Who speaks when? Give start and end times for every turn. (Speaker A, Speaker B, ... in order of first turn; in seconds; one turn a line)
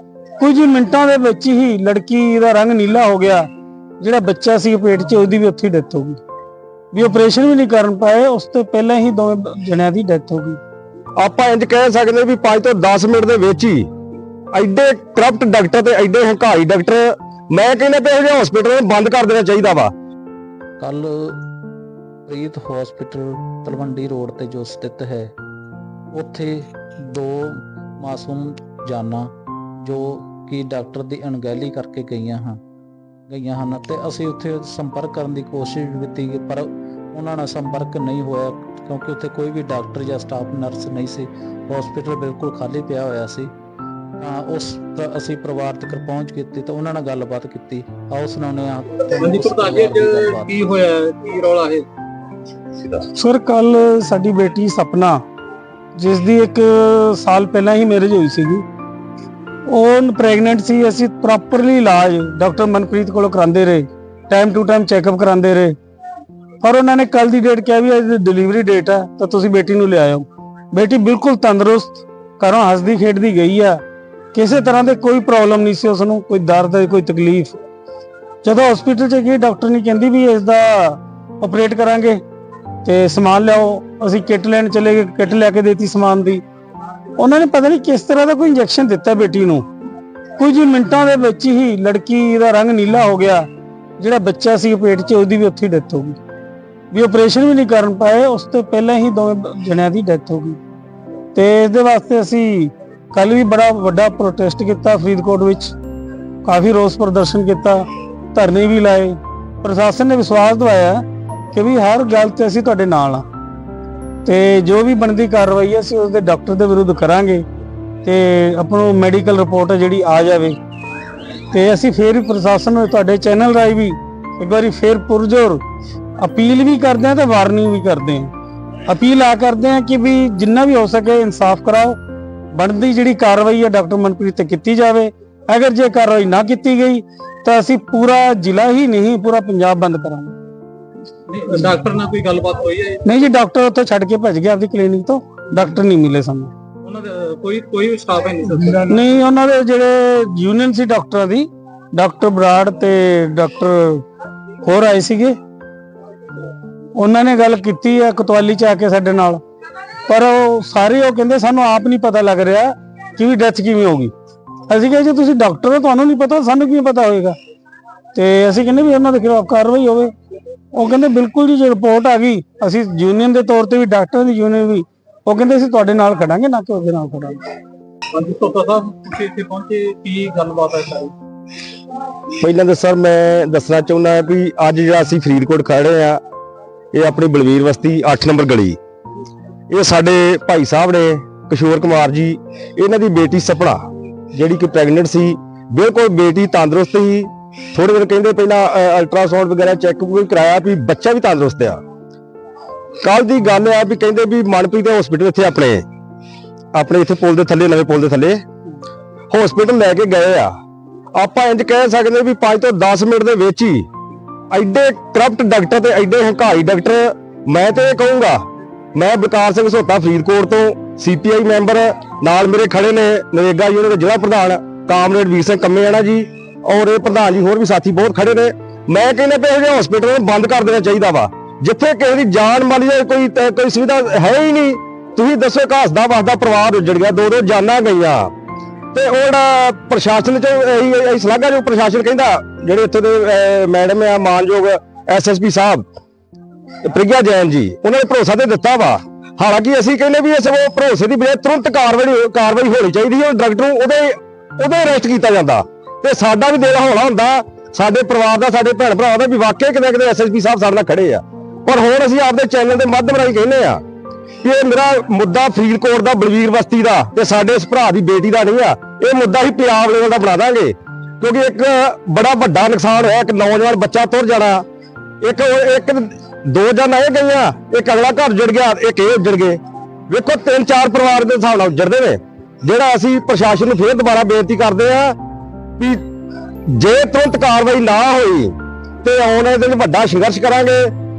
Speaker A: 0.4-3.5
Speaker A: 4.0-6.2
Speaker A: 6.9-10.6
Speaker B: 11.2-13.9
Speaker B: 14.5-19.9
Speaker C: 20.8-21.4
Speaker C: 22.3-25.3
Speaker C: 26.1-32.6
Speaker C: 33.3-43.5
Speaker C: 44.2-50.5
Speaker D: 49.1-51.9
Speaker A: 53.1-55.2
Speaker A: 56.0-58.6
Speaker A: 59.7-65.7
Speaker A: 66.6-73.8
Speaker A: 74.3-77.5
Speaker A: 78.4-82.2
Speaker A: 82.8-86.4
Speaker A: 87.2-89.6
Speaker A: 90.4-93.5
Speaker A: 94.0-96.2
Speaker A: 96.9-100.6
Speaker A: 101.3-105.7
Speaker A: 106.4-113.2
Speaker A: 114.2-117.4
Speaker A: 118.0-120.6
Speaker A: 121.5-125.6
Speaker A: 126.2-128.3
Speaker A: 128.8-132.0
Speaker A: 132.5-140.3
Speaker D: 141.3-143.0
Speaker A: 143.0-146.5
Speaker D: 146.8-149.0
Speaker A: 148.9-154.0
Speaker A: 154.6-155.3
Speaker A: 157.0-159.4
Speaker A: 160.1-164.1
Speaker A: 164.7-167.4
Speaker A: 168.1-170.1
Speaker A: 170.7-177.4
Speaker D: 178.1-181.1
Speaker B: 182.4-186.2
Speaker B: 186.9-188.8
Speaker B: 189.7-193.8
Speaker B: 194.3-201.8
Speaker B: 203.0-205.8
Speaker B: 206.7-208.4
Speaker B: 209.3-210.5
Speaker B: 211.1-213.9
Speaker B: 214.5-218.4
Speaker B: 218.9-238.3
Speaker B: 238.9-245.9
Speaker B: 246.8-263.8
Speaker B: 264.4-274.6
Speaker B: 275.2-285.2
Speaker B: 285.8-286.0
Speaker B: 286.7-290.9